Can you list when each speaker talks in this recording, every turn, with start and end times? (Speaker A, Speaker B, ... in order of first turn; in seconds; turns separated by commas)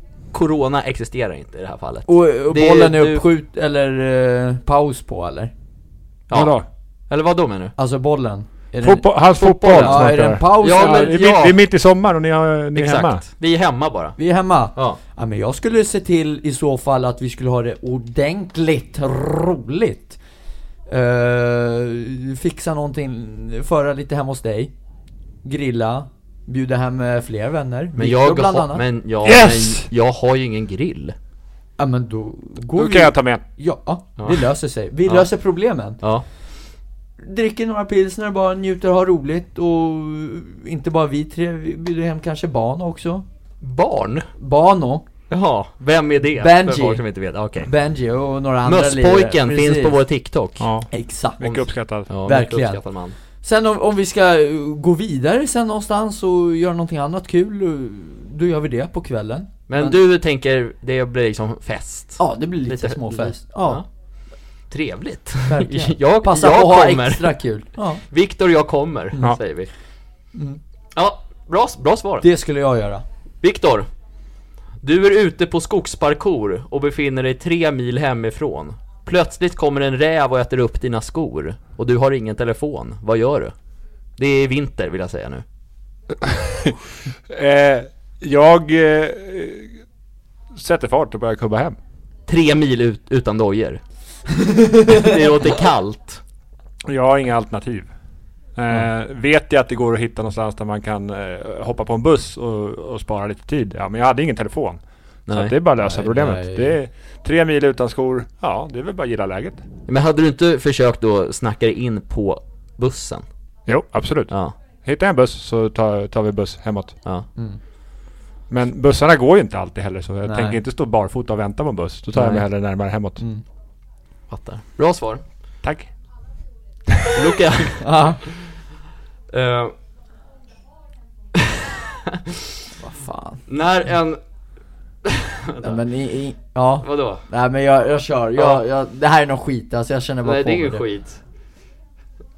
Speaker A: 0.3-3.2, Speaker B: 2.1-5.5, Speaker A: 6.3-6.5, Speaker C: 6.3-6.6, Speaker A: 7.1-7.7, Speaker B: 7.8-9.1, Speaker C: 8.8-13.2, Speaker A: 9.4-11.6, Speaker B: 9.6-11.2, Speaker A: 12.7-14.2, Speaker B: 14.2-20.2, Speaker B: 20.9-24.7, Speaker B: 25.4-28.8, Speaker A: 28.0-31.1, Speaker C: 29.2-29.9, Speaker B: 31.8-36.0, Speaker C: 32.7-33.4, Speaker B: 37.2-43.2, Speaker A: 43.6-44.3, Speaker B: 44.4-45.1, Speaker A: 45.3-47.7, Speaker B: 46.4-47.0, Speaker B: 47.6-50.0, Speaker A: 48.6-50.7, Speaker C: 50.6-50.9, Speaker B: 50.9-51.7, Speaker C: 51.4-52.1, Speaker A: 52.1-53.1, Speaker B: 52.2-52.8, Speaker B: 53.4-60.0, Speaker A: 59.7-63.8, Speaker B: 62.2-63.8, Speaker A: 64.7-67.4, Speaker B: 65.5-68.0, Speaker A: 68.1-69.7, Speaker B: 70.3-70.6, Speaker A: 70.9-72.3, Speaker B: 72.2-73.0, Speaker A: 73.4-73.9, Speaker A: 74.8-83.5, Speaker A: 84.2-85.4, Speaker C: 86.2-86.8, Speaker C: 87.3-89.7, Speaker C: 90.5-91.8, Speaker A: 92.3-93.8, Speaker B: 94.4-95.1, Speaker A: 94.8-96.2, Speaker C: 96.9-97.9, Speaker C: 98.5-109.6, Speaker A: 105.3-105.5, Speaker B: 105.8-106.7, Speaker A: 109.9-113.2, Speaker C: 113.7-117.0, Speaker C: 118.5-123.2, Speaker B: 120.2-120.6, Speaker A: 122.1-122.4, Speaker A: 124.3-125.2, Speaker C: 125.6-125.9, Speaker C: 126.9-127.3, Speaker A: 127.1-128.4, Speaker B: 127.8-128.2, Speaker A: 129.3-129.7, Speaker B: 132.8-133.4, Speaker A: 133.5-134.2, Speaker A: 135.0-135.8, Speaker B: 135.6-140.8, Speaker A: 136.8-137.2, Speaker A: 140.2-141.2